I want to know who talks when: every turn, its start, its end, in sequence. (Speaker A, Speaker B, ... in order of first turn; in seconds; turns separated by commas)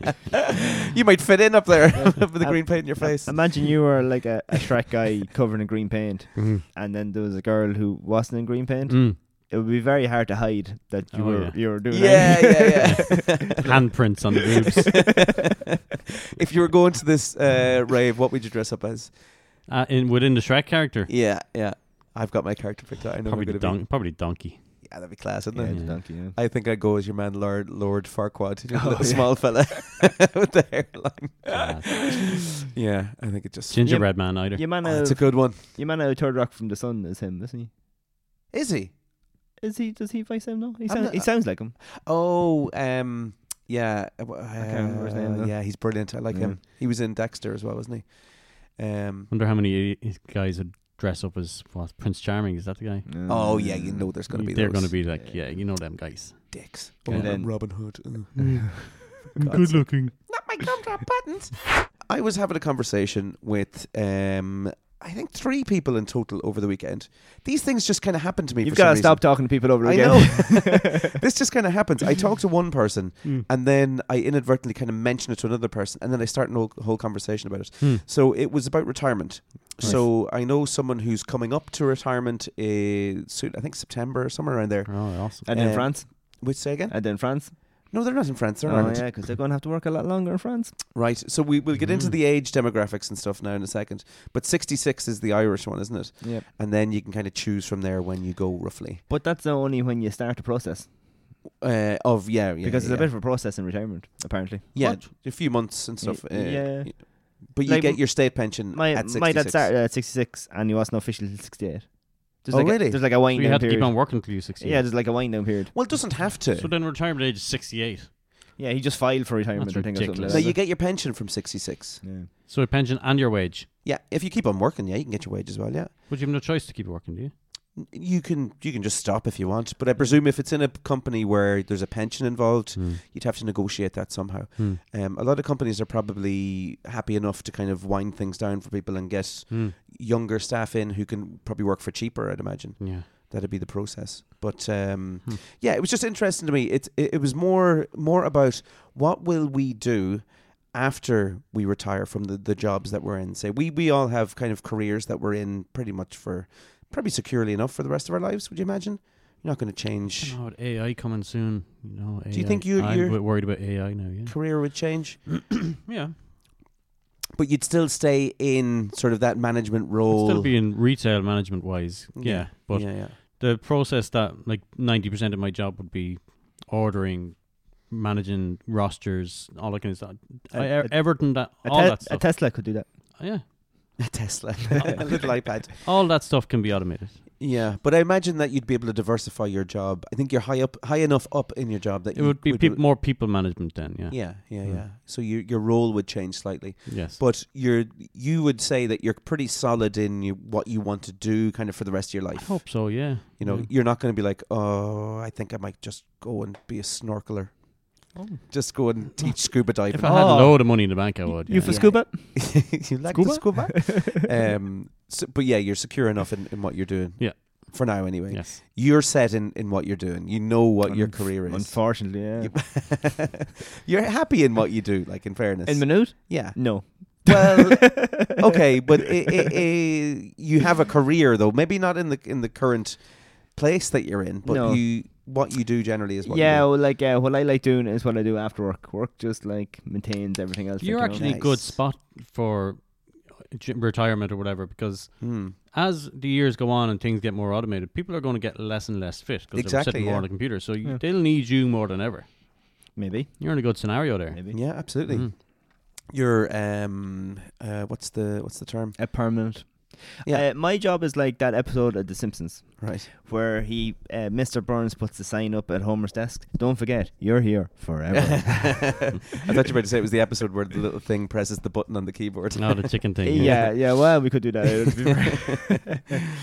Speaker A: 0.9-4.0, Speaker B: 1.9-13.7, Speaker C: 6.3-6.6, Speaker C: 8.9-9.2, Speaker C: 11.1-12.1, Speaker A: 11.9-14.2, Speaker C: 12.8-15.2, Speaker A: 14.8-15.4, Speaker A: 16.4-19.2, Speaker C: 19.7-21.1, Speaker A: 21.1-24.3, Speaker C: 23.2-25.1, Speaker A: 24.8-35.6, Speaker B: 25.5-26.4, Speaker C: 25.7-26.0, Speaker B: 28.7-29.8, Speaker C: 31.5-31.9, Speaker C: 33.7-34.7, Speaker B: 33.8-37.7, Speaker A: 38.5-39.0, Speaker B: 39.6-41.7, Speaker A: 40.9-49.3, Speaker B: 44.6-46.6, Speaker C: 49.3-53.1, Speaker B: 53.0-54.2, Speaker A: 53.3-55.0, Speaker C: 54.3-57.7, Speaker B: 55.1-55.5, Speaker A: 56.5-89.2, Speaker B: 57.1-58.1, Speaker C: 58.3-60.3, Speaker B: 68.6-71.1, Speaker C: 77.8-78.0, Speaker C: 79.8-80.1, Speaker B: 79.8-80.1, Speaker C: 84.8-85.5, Speaker B: 85.5-88.1, Speaker B: 88.6-90.8, Speaker A: 90.9-99.0, Speaker C: 91.8-92.2, Speaker B: 96.2-96.5, Speaker B: 99.1-101.0, Speaker A: 101.6-103.2, Speaker B: 102.6-105.5, Speaker A: 104.7-109.7, Speaker C: 104.8-105.0, Speaker B: 106.0-115.7, Speaker A: 112.5-113.2, Speaker C: 113.3-114.9, Speaker A: 115.7-116.7, Speaker C: 116.0-118.1, Speaker B: 118.6-120.6, Speaker C: 119.5-120.5, Speaker A: 120.3-122.0, Speaker B: 122.0-122.3, Speaker C: 122.5-123.7, Speaker A: 123.8-125.9, Speaker C: 126.1-127.3, Speaker A: 127.7-160.4, Speaker C: 132.7-133.0, Speaker C: 139.5-139.7, Speaker C: 142.8-143.1, Speaker C: 160.1-165.1, Speaker A: 162.3-165.3, Speaker C: 165.8-166.2, Speaker A: 167.3-170.5, Speaker C: 170.1-184.0, Speaker A: 172.1-173.2, Speaker B: 180.5-183.1, Speaker A: 184.0-185.8, Speaker C: 185.8-187.2, Speaker A: 187.4-192.8, Speaker C: 192.1-194.8, Speaker A: 194.1-210.5, Speaker C: 196.9-197.2, Speaker C: 202.3-203.7, Speaker B: 208.1-208.5, Speaker C: 209.9-212.0, Speaker B: 210.0-214.0, Speaker A: 211.6-236.8, Speaker C: 213.1-213.4, Speaker C: 217.2-218.6, Speaker B: 220.8-223.1, Speaker B: 225.7-228.3, Speaker B: 234.4-234.9, Speaker B: 236.2-241.5, Speaker C: 240.8-255.3, Speaker A: 241.1-241.8, Speaker A: 245.2-245.6, Speaker A: 249.5-250.4, Speaker B: 252.9-254.6, Speaker A: 254.5-259.6, Speaker B: 258.9-269.2, Speaker A: 262.8-263.1, Speaker A: 268.1-273.9, Speaker C: 272.6-273.8, Speaker B: 273.2-276.1